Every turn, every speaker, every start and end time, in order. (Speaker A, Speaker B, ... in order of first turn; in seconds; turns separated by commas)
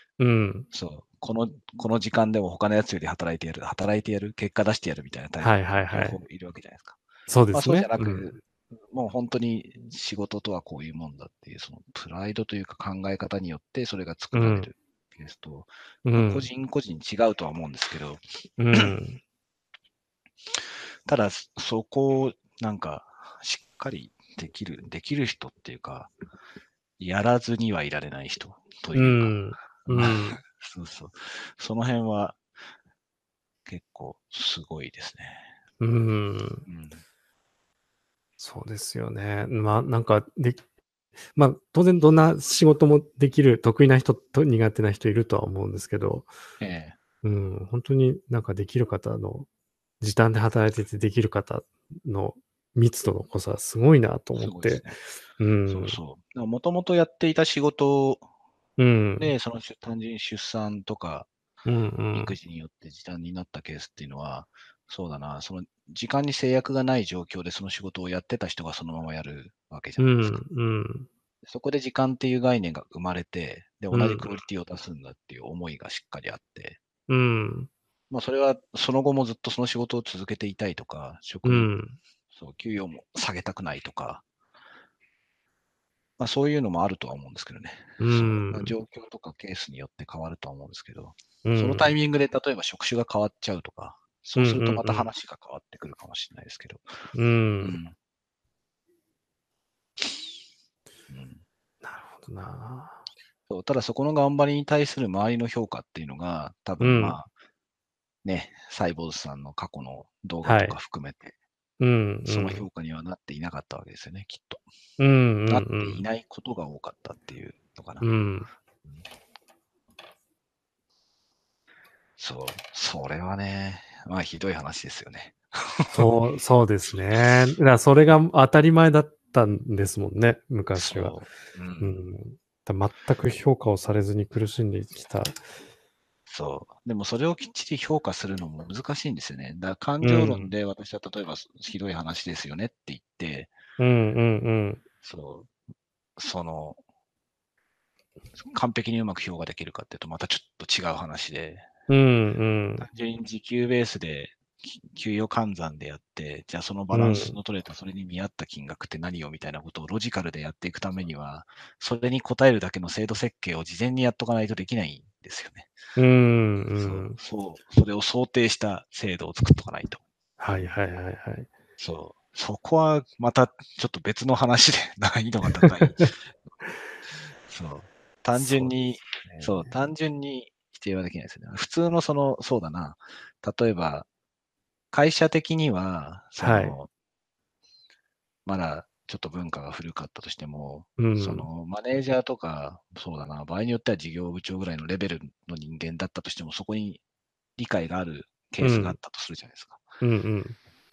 Speaker A: 0.2-0.7, Speaker B: 0.7-7.0, Speaker A: 5.4-6.2, Speaker A: 7.3-8.3, Speaker B: 7.5-18.2, Speaker A: 14.3-14.7, Speaker A: 16.0-16.5, Speaker A: 18.6-19.2, Speaker B: 21.1-26.1, Speaker B: 27.0-32.4, Speaker A: 28.9-30.4, Speaker B: 33.6-35.5, Speaker A: 35.8-36.6, Speaker B: 36.6-37.0, Speaker A: 38.4-40.6, Speaker A: 41.3-46.3, Speaker B: 46.6-47.0, Speaker A: 47.2-49.5, Speaker A: 50.0-56.0, Speaker B: 54.4-55.0, Speaker B: 55.7-58.2, Speaker A: 58.8-59.3, Speaker B: 59.2-61.3, Speaker A: 61.6-62.3, Speaker B: 62.1-70.4, Speaker A: 70.0-71.1, Speaker B: 71.4-76.8, Speaker A: 73.9-74.2, Speaker A: 77.1-77.7, Speaker B: 78.1-81.7, Speaker A: 81.4-82.0, Speaker B: 82.3-84.2, Speaker B: 86.2-96.9, Speaker A: 88.0-88.7, Speaker A: 91.4-91.9, Speaker A: 94.3-95.1, Speaker A: 97.1-97.8, Speaker B: 97.6-97.9, Speaker B: 101.1-101.4, Speaker A: 101.8-103.0, Speaker B: 103.5-107.3, Speaker A: 106.8-107.2, Speaker B: 108.2-111.3, Speaker A: 110.4-110.8, Speaker A: 111.8-112.7, Speaker B: 112.2-114.6, Speaker A: 115.0-116.0, Speaker B: 115.5-118.1, Speaker A: 118.0-118.5, Speaker B: 122.2-126.1, Speaker A: 125.9-131.2, Speaker B: 130.7-132.0, Speaker A: 131.8-135.4, Speaker B: 136.3-143.5, Speaker A: 140.0-140.5, Speaker A: 143.8-144.8, Speaker B: 145.0-145.5, Speaker B: 146.2-146.8, Speaker B: 148.4-151.7, Speaker A: 151.9-152.8, Speaker B: 152.8-165.7, Speaker A: 156.9-157.4, Speaker A: 165.9-167.2, Speaker B: 166.8-170.7, Speaker A: 170.4-171.5, Speaker B: 171.8-176.3, Speaker B: 177.5-184.1, Speaker A: 178.3-178.7, Speaker A: 179.2-179.7, Speaker B: 184.9-186.9, Speaker A: 186.4-186.8, Speaker B: 188.4-197.0, Speaker A: 191.0-191.5, Speaker B: 197.6-199.8, Speaker A: 198.6-199.0, Speaker A: 200.0-200.6